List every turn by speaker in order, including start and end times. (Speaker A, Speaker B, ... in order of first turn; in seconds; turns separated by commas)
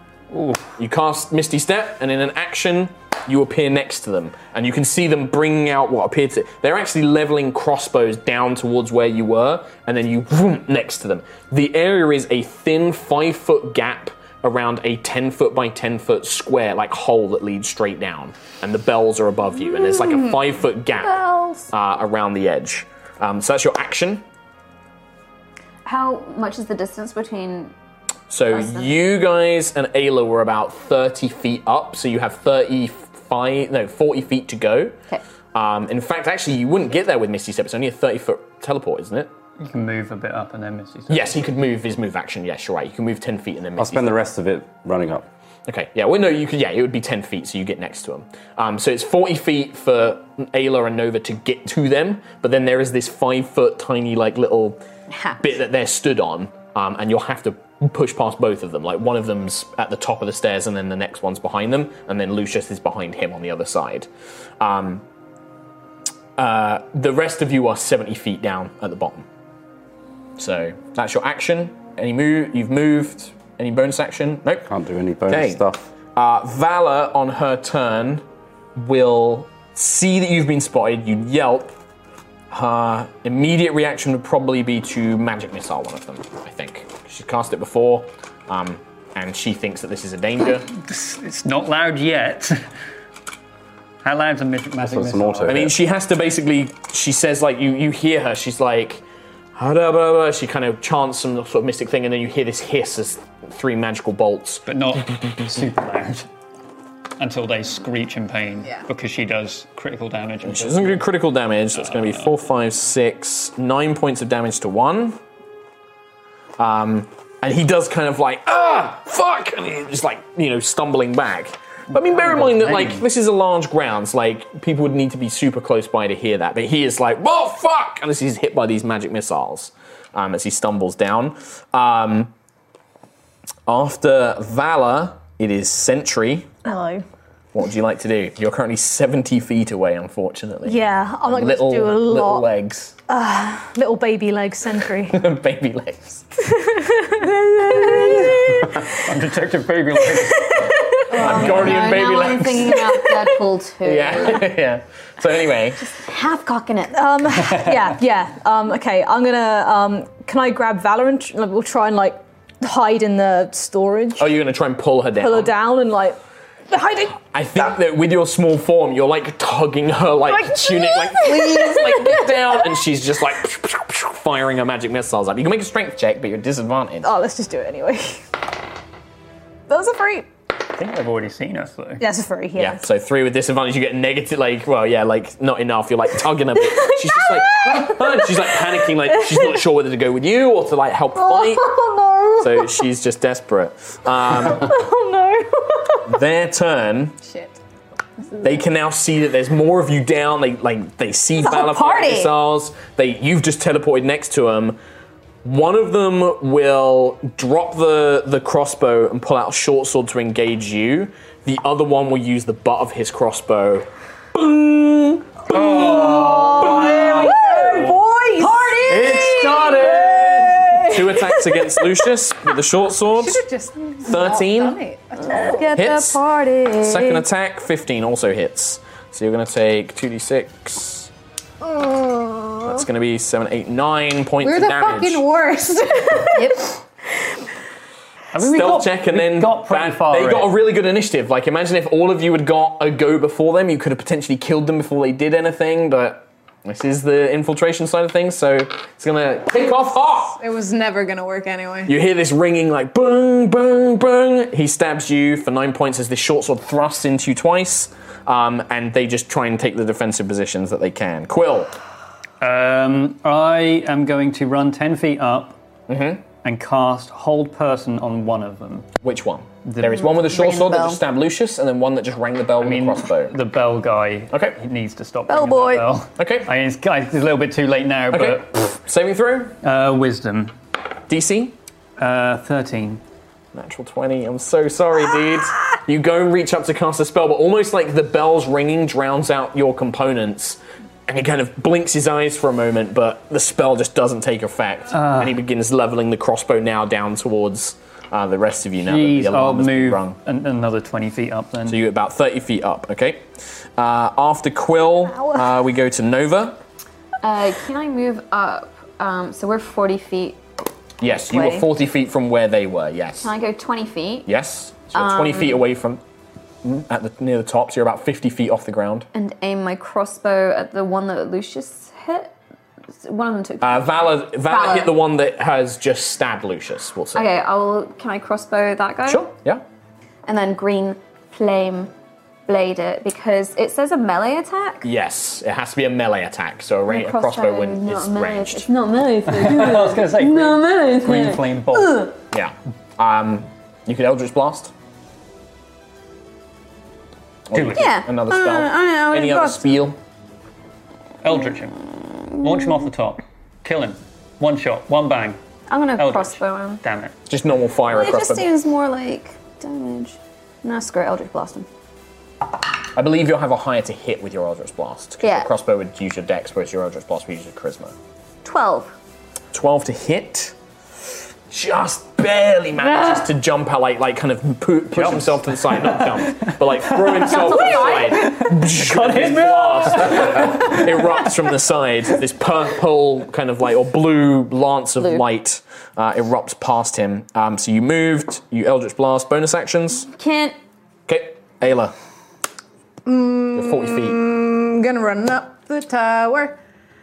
Speaker A: 0.3-0.7, Speaker B: 0.8-24.2, Speaker C: 25.8-27.7, Speaker B: 28.3-35.0, Speaker C: 28.5-28.9, Speaker B: 35.5-39.3, Speaker A: 39.6-41.4, Speaker B: 41.1-44.2, Speaker D: 43.8-45.2, Speaker B: 45.7-54.8, Speaker B: 55.4-64.1, Speaker B: 64.6-65.0, Speaker B: 66.4-69.2, Speaker B: 70.4-74.7, Speaker D: 74.7-75.9, Speaker B: 75.3-75.6, Speaker B: 76.1-78.2, Speaker B: 78.8-81.7, Speaker B: 82.5-90.7, Speaker A: 90.7-92.6, Speaker A: 94.0-95.6, Speaker D: 94.8-95.8, Speaker B: 95.5-99.0, Speaker B: 99.5-104.7, Speaker A: 104.7-106.3, Speaker A: 107.2-111.0, Speaker B: 110.4-115.2, Speaker B: 116.6-132.3, Speaker A: 121.9-123.0, Speaker B: 133.7-136.5, Speaker E: 136.6-137.0, Speaker B: 137.5-142.9, Speaker E: 140.6-142.5, Speaker E: 143.1-145.2, Speaker B: 145.1-146.2, Speaker E: 146.4-149.0, Speaker A: 149.0-150.6, Speaker E: 150.1-151.4, Speaker C: 151.1-154.5, Speaker B: 151.2-152.8, Speaker A: 151.2-151.7, Speaker B: 153.8-155.8, Speaker C: 155.8-157.0, Speaker E: 156.9-164.4, Speaker A: 157.4-157.8, Speaker B: 164.2-165.5, Speaker E: 165.2-167.7, Speaker B: 167.3-177.1, Speaker E: 170.2-172.8, Speaker E: 177.0-178.3, Speaker E: 179.7-180.3, Speaker A: 180.7-182.0, Speaker E: 182.0-182.8, Speaker B: 182.6-191.8, Speaker E: 186.7-189.6, Speaker E: 191.1-192.8, Speaker B: 192.4-194.7, Speaker E: 194.2-196.2, Speaker B: 196.1-197.2, Speaker F: 197.2-197.6, Speaker B: 198.4-204.8, Speaker C: 201.4-202.3, Speaker B: 205.4-215.6, Speaker A: 215.5-217.9, Speaker E: 215.5-222.1, Speaker B: 216.8-217.1, Speaker F: 217.1-217.8, Speaker A: 218.8-220.7, Speaker B: 220.9-223.4, Speaker F: 223.1-225.6, Speaker B: 224.0-224.8, Speaker E: 225.3-227.2, Speaker B: 225.5-226.2, Speaker B: 226.8-231.1, Speaker E: 231.7-232.7, Speaker B: 232.7-235.2, Speaker F: 234.4-236.4, Speaker A: 238.3-240.5, Speaker B: 238.4-250.4, Speaker F: 250.4-251.9, Speaker B: 251.9-261.7, Speaker A: 262.4-265.6, Speaker B: 265.9-266.2, Speaker A: 266.4-268.9, Speaker B: 269.0-273.3, Speaker A: 269.6-270.1, Speaker C: 270.1-271.0, Speaker A: 272.6-278.7, Speaker B: 274.3-274.6, Speaker C: 275.3-275.8, Speaker B: 276.2-276.5, Speaker B: 278.1-279.6, Speaker A: 279.6-280.5, Speaker B: 281.1-281.6, Speaker A: 282.0-283.0, Speaker B: 283.5-300.2, Speaker A: 294.9-295.4, Speaker A: 298.8-301.8, Speaker B: 301.6-306.6, Speaker E: 305.1-305.5, Speaker C: 307.2-310.4, Speaker B: 311.0-313.3, Speaker C: 311.1-311.7, Speaker C: 313.2-314.3, Speaker B: 314.2-316.0, Speaker C: 314.9-315.6, Speaker B: 316.6-319.1, Speaker C: 319.1-322.3, Speaker C: 323.0-324.9, Speaker B: 323.6-327.3, Speaker C: 327.1-329.3, Speaker B: 329.1-329.6, Speaker C: 330.2-331.9, Speaker C: 332.5-334.9, Speaker B: 334.8-338.7, Speaker C: 336.9-342.1, Speaker A: 339.2-342.1, Speaker B: 342.3-344.7, Speaker B: 347.5-350.0, Speaker A: 347.5-347.9, Speaker C: 347.8-349.8, Speaker A: 351.2-351.8, Speaker C: 352.3-352.8, Speaker A: 352.4-355.4, Speaker C: 355.7-356.8, Speaker A: 356.0-357.1, Speaker B: 357.3-358.5, Speaker C: 357.9-361.7, Speaker B: 362.9-367.9, Speaker C: 365.2-365.5, Speaker C: 368.4-368.9, Speaker B: 369.5-370.5, Speaker B: 371.5-390.1, Speaker C: 372.8-373.3, Speaker A: 374.9-381.0, Speaker C: 377.1-378.5, Speaker C: 385.0-385.2, Speaker C: 390.1-390.5, Speaker B: 391.1-391.9, Speaker F: 393.0-396.6, Speaker B: 393.5-394.2